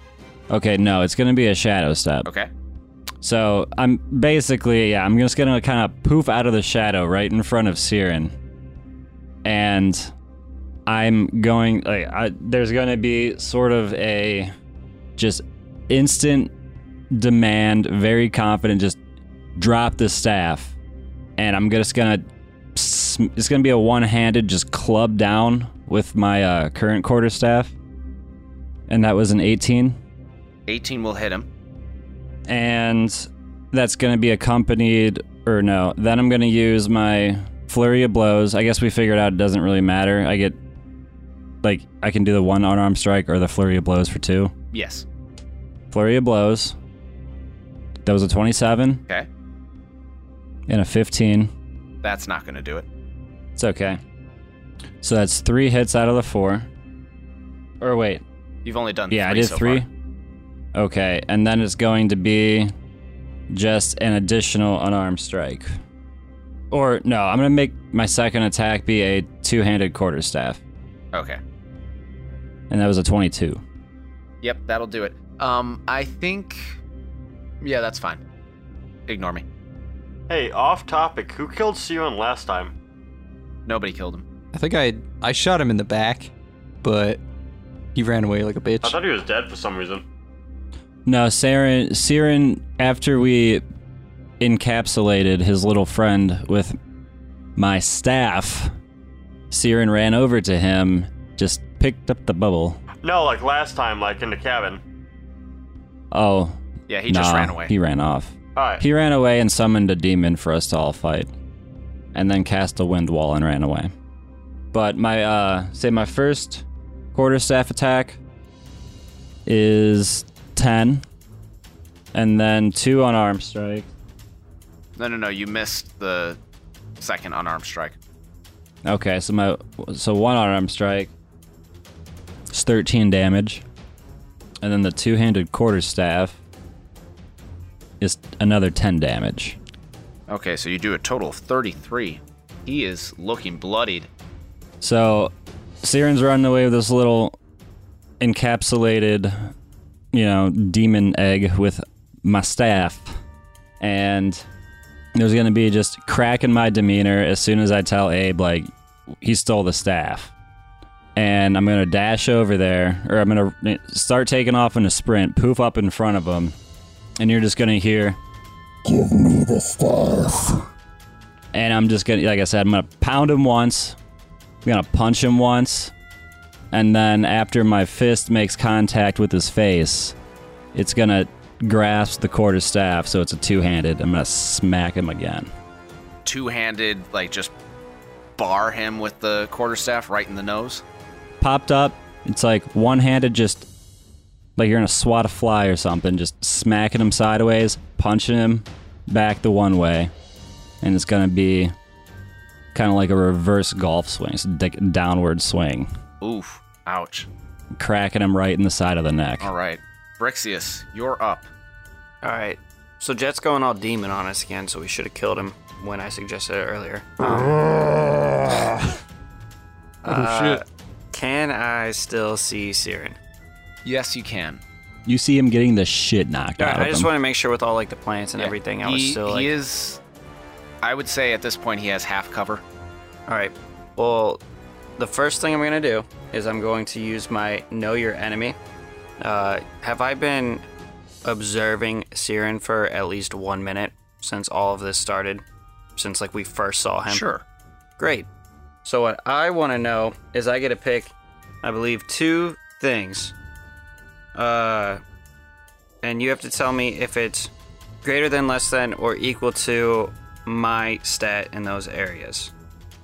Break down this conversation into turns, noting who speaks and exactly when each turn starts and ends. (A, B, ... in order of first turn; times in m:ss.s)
0:00.5-0:02.3 A
0:03.2-0:08.3 A
0:09.4-0:10.1 A
0:10.9-0:14.5 A
0:15.2-0:16.5 A
0:17.1-0:19.0 A
0:19.6-0:20.7 A
0:21.4-0:22.2 A
0:22.7-0:27.7 A
0:28.9-0:30.0 A
0:30.7-0:31.5 B
0:32.5-0:40.6 A
0:41.6-0:44.5 A
0:44.7-0:45.0 B
0:45.9-0:46.8 A
0:48.0-0:49.0 A
0:50.7-0:51.5 A
0:52.0-0:52.9 B
0:53.6-0:54.0 A
0:55.0-0:56.7 A
0:57.8-0:58.2 A
0:58.6-0:59.8 B
0:59.1-0:59.9 A
1:00.7-1:02.7 A
1:03.5-1:05.7 A
1:06.7-1:10.6 A
1:11.1-1:11.4 B
1:12.7-1:13.6 A
1:14.4-1:16.8 B
1:17.6-1:18.2 B
1:19.1-1:19.4 B
1:20.3-1:22.7 C
1:23.6-1:24.2 B
1:24.5-1:26.3 D
1:26.8-1:27.2 D
1:27.9-1:29.0 D
1:28.8-1:30.0 C
1:31.0-1:33.6 A
1:34.4-1:36.8 A
1:37.6-1:38.7 A
1:39.5-1:42.8 A
1:43.0-1:44.8 C
1:46.1-1:51.3 A
1:46.9-1:47.7 B
1:48.6-1:48.8 C
1:52.1-1:53.9 A
1:54.7-1:58.2 A
1:59.4-2:01.0 A
2:02.1-2:03.9 A
2:05.0-2:06.4 B
2:07.0-2:08.0 B
2:08.8-2:11.1 A
2:12.5-2:13.6 A
2:14.6-2:16.4 A
2:18.0-2:19.6 A
2:20.3-2:24.1 B
2:24.8-2:25.3 A
2:25.8-2:27.3 A
2:28.2-2:29.5 A
2:30.1-2:33.2 A
2:33.8-2:34.4 A
2:35.1-2:38.7 A
2:39.2-2:40.3 A
2:41.2-2:46.5 A
2:47.2-2:48.2 A
2:48.8-2:50.6 E
2:51.5-2:54.0 A
2:54.6-2:55.9 A
2:56.7-3:00.1 A
3:00.7-3:05.5 A
3:06.2-3:07.5 B
3:08.4-3:10.8 B
3:11.4-3:13.6 A
3:14.6-3:20.1 A
3:20.8-3:21.7 A
3:22.7-3:25.9 A
3:26.2-3:27.3 B
3:27.8-3:29.5 A
3:29.4-3:31.5 B
3:32.2-3:37.6 F
3:37.4-3:38.9 E
3:40.0-3:40.6 E
3:40.0-3:43.2 F
3:43.8-3:44.6 B
3:45.0-3:47.1 A
3:46.6-3:49.5 F
3:48.4-3:50.0 B
3:50.8-3:52.6 B
3:53.3-3:54.4 F
3:55.0-3:58.6 F
3:59.2-4:00.6 F
4:01.2-4:05.4 F
4:06.0-4:07.3 F
4:07.1-4:07.4 B
4:08.0-4:08.3 F
4:08.8-4:11.1 F
4:11.6-4:13.3 F
4:14.3-4:15.0 F
4:16.0-4:17.5 F
4:18.0-4:22.5 F